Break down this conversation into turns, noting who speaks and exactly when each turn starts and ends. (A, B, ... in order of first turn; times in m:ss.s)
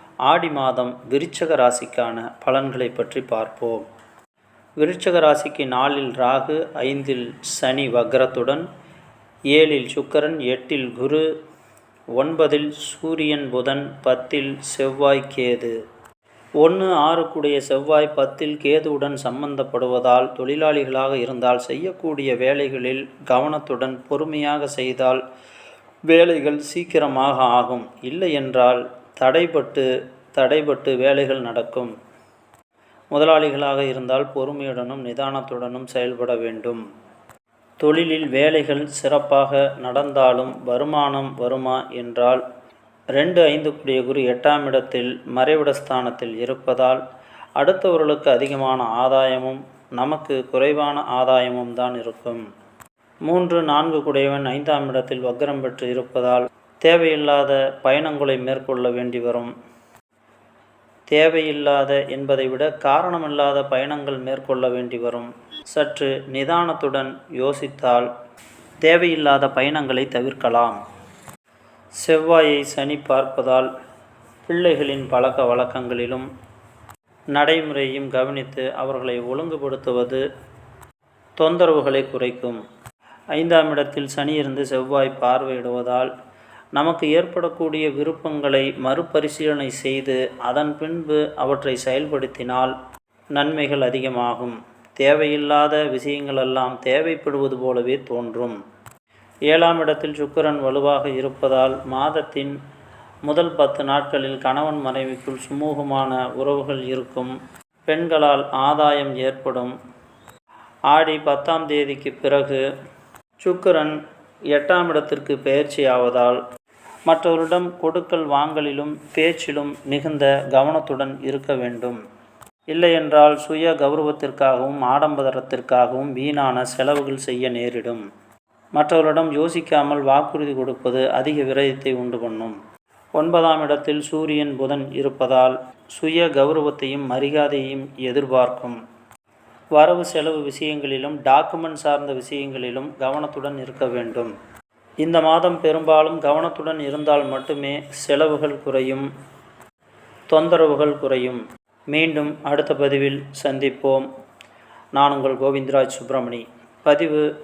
0:00.2-0:03.8 A
0:04.8-0:08.6 A
0:09.5-0:11.2 A
0:12.2-0:15.7 A
0:16.6-0:25.2 A
0:26.1-0:31.9 A
0:33.1-0:36.8 A
0:37.8-0:42.4 A
0:43.1-0:47.0 A
0:47.6-0:52.4 A
0:53.2-0:59.5 A
1:01.1-1:08.1 A
1:08.8-1:10.8 A
1:12.0-1:13.7 A
1:14.5-1:16.3 A
1:17.3-1:20.2 A
1:21.4-1:22.6 A
1:23.3-1:26.1 A
1:26.7-1:32.7 A
1:33.3-1:38.6 A
1:39.5-1:42.6 A
1:43.2-1:47.4 A
1:47.9-1:49.7 A
1:50.9-1:52.6 A
1:53.4-1:54.0 A
1:54.5-1:56.4 A
1:57.1-2:02.0 A
2:02.7-2:08.0 A
2:08.7-2:12.6 A
2:13.2-2:18.8 A
2:19.7-2:24.3 A
2:25.0-2:29.1 A
2:30.3-2:34.1 A
2:34.9-2:37.3 A